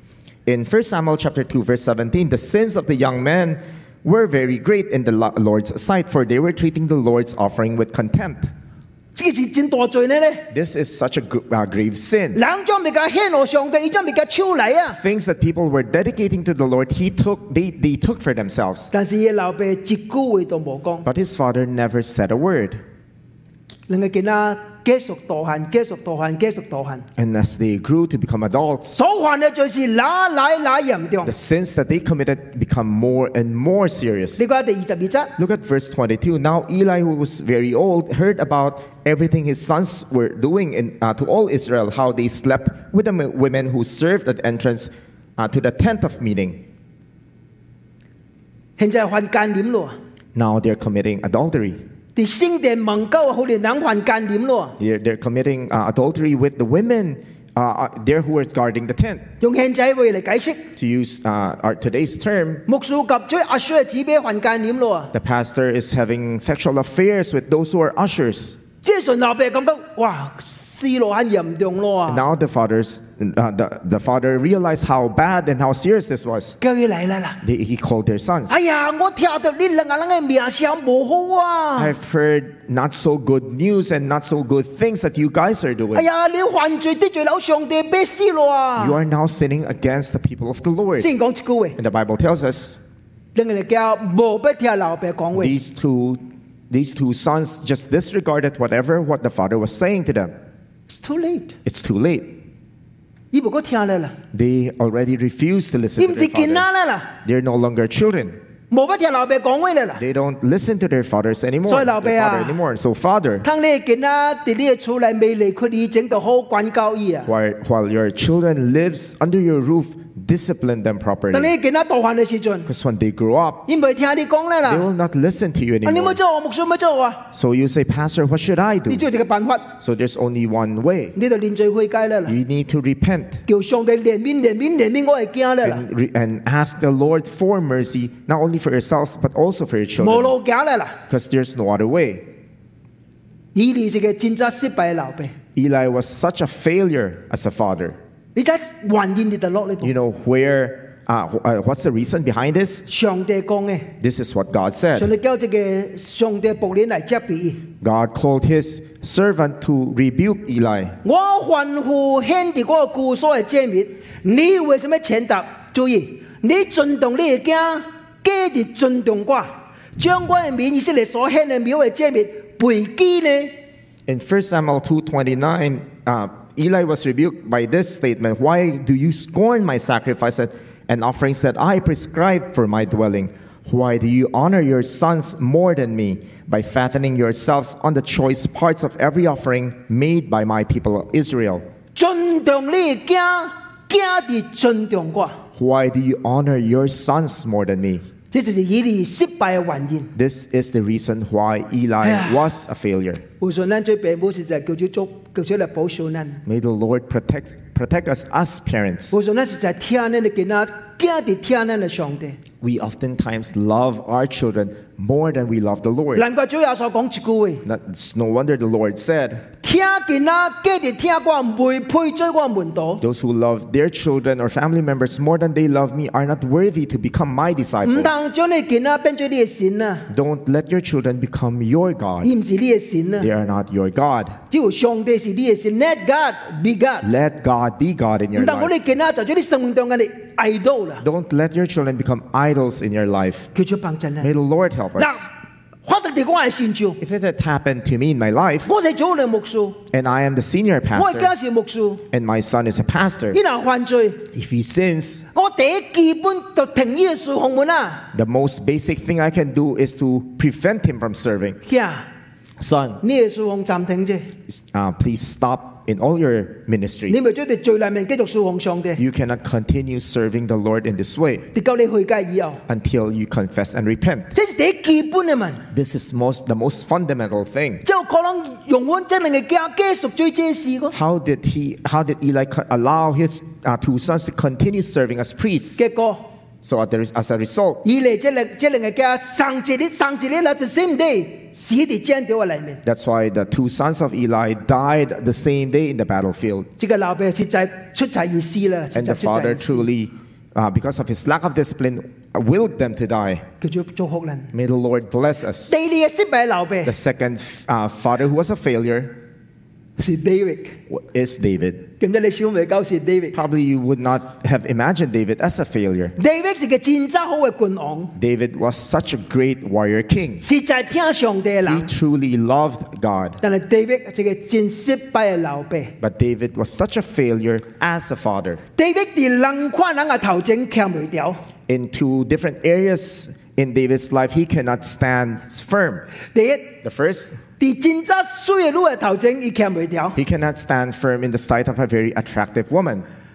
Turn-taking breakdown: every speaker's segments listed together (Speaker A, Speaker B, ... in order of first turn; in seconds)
Speaker A: 0.5-8.5, 10.5-12.4, 15.0-18.9, 21.0-22.8, 27.2-28.9, 31.2-34.4, 35.4-46.6, 50.3-51.8, 54.8-59.2, 60.8-62.6, 65.1-68.6, 72.1-76.6, 77.4-78.5, 81.8-86.1, 88.8-91.1, 91.8-92.8, 95.3-100.3, 101.6-102.4, 104.3-106.7, 107.2-108.4, 110.0-113.5, 117.2-121.5, 122.7-123.6, 124.7-126.2, 127.3-129.1, 129.8-131.1, 132.2-133.4, 135.6-140.3, 141.1-142.3, 145.5-148.0, 149.8-152.8, 154.0-155.1, 157.8-161.0, 174.1-191.6, 195.5-198.0, 200.1-203.2, 206.4-209.1, 212.6-216.2, 217.6-219.4, 223.0-228.1, 230.1-232.3, 233.2-234.4, 237.0-238.7, 241.0-243.5, 244.2-245.2, 247.0-248.7, 249.9-251.3, 252.1-253.4, 254.3-255.2, 258.1-261.6, 262.6-263.0, 264.5-267.2, 269.0-271.5, 272.7-274.3, 275.7-277.8, 280.9-285.8, 286.6-287.8, 292.8-296.7, 298.9-303.4, 304.5-305.7, 306.8-309.2, 310.9-311.9, 313.3-316.1, 318.1-320.4, 321.6-323.4, 326.0-328.6, 331.7-336.1, 336.8-337.4, 340.1-343.1
Speaker B: 9.2-10.4, 12.3-15.0, 18.9-21.1, 23.9-27.1, 28.9-31.3, 34.4-35.3, 48.8-49.9, 52.1-54.7, 59.4-60.6, 62.7-65.1, 68.8-72.2, 76.6-77.4, 78.5-81.9, 85.9-89.0, 91.0-91.8, 93.3-95.5, 100.9-101.5, 103.3-104.1, 106.0-107.1, 108.7-110.0, 111.7-112.6, 113.4-117.3, 121.3-122.7, 123.7-124.9, 125.8-127.2, 128.9-129.7, 131.2-132.3, 133.5-135.8, 140.0-141.0, 143.5-145.3, 148.3-149.9, 152.9-153.9, 154.9-157.6, 161.0-173.5, 191.9-195.4, 198.3-200.1, 202.0-202.4, 203.4-206.4, 209.1-212.4, 216.2-217.6, 219.6-223.0, 227.8-230.1, 232.2-233.3, 234.5-237.1, 238.3-241.0, 243.5-244.3, 245.0-245.3, 245.8-247.0, 248.6-249.8, 250.9-252.0, 253.3-254.2, 255.3-258.1, 261.6-262.0, 263.0-264.3, 267.1-269.0, 271.5-272.6, 274.3-275.6, 277.8-280.9, 285.8-286.3, 287.8-292.8, 296.8-299.9, 303.6-304.5, 305.7-306.9, 310.0-310.8, 312.0-313.4, 316.2-318.1, 320.4-321.9, 323.4-325.9, 328.8-331.4, 336.3-336.8, 337.6-340.2